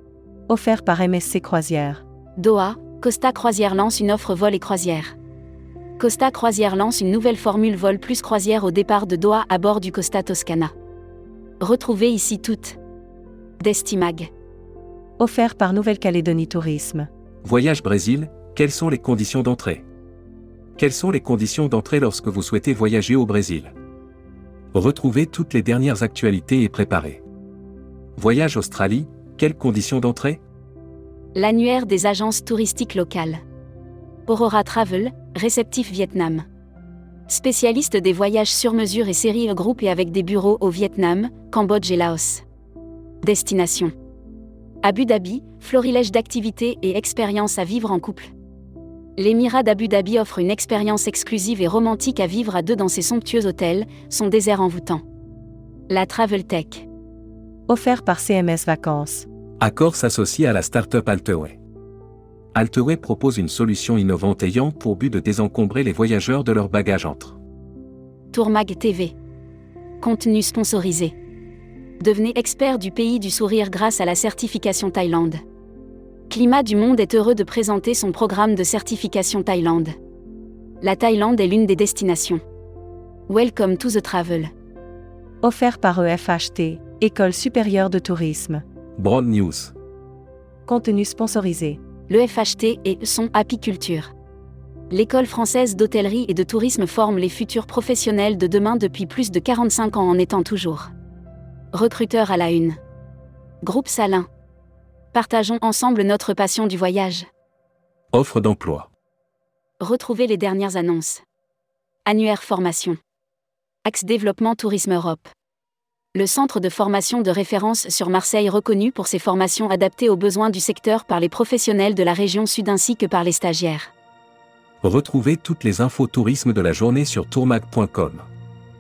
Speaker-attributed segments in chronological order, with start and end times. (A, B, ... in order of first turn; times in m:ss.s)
0:00.5-0:02.0 A
0:02.4-0:05.2 B
0:06.0-0:10.7 B
0:11.6-0:12.8 B
0:13.6-0:14.3 B
0:15.2-0:17.1 A
0:17.4-0:19.9 C
0:20.8-0:23.7 C
0:24.7-0:27.2 C
0:28.2-0:30.4 C
0:31.3-0:33.4 B
0:34.2-0:36.4 B
0:37.3-0:42.4 B
0:43.2-0:43.9 B
0:44.8-0:48.3 B
0:49.2-0:55.0 B
0:55.9-0:56.9 B
0:57.7-0:59.3 A
0:59.6-1:01.6 C
1:02.5-1:07.4 C
1:08.3-1:09.2 B
1:10.0-1:11.1 B
1:12.0-1:15.4 B
1:16.3-1:19.9 B
1:20.8-1:22.4 B
1:23.3-1:24.5 B
1:25.4-1:28.6 A
1:29.0-1:29.7 C
1:30.7-1:31.8 A
1:32.1-1:34.1 B
1:34.9-1:40.9 B
1:41.7-1:42.8 B
1:43.6-1:44.3 B
1:45.1-1:47.3 B
1:48.1-1:48.9 C
1:49.8-1:51.2 B
1:52.1-1:53.0 B
1:53.8-1:55.3 B
1:56.1-2:03.9 B
2:04.8-2:08.3 C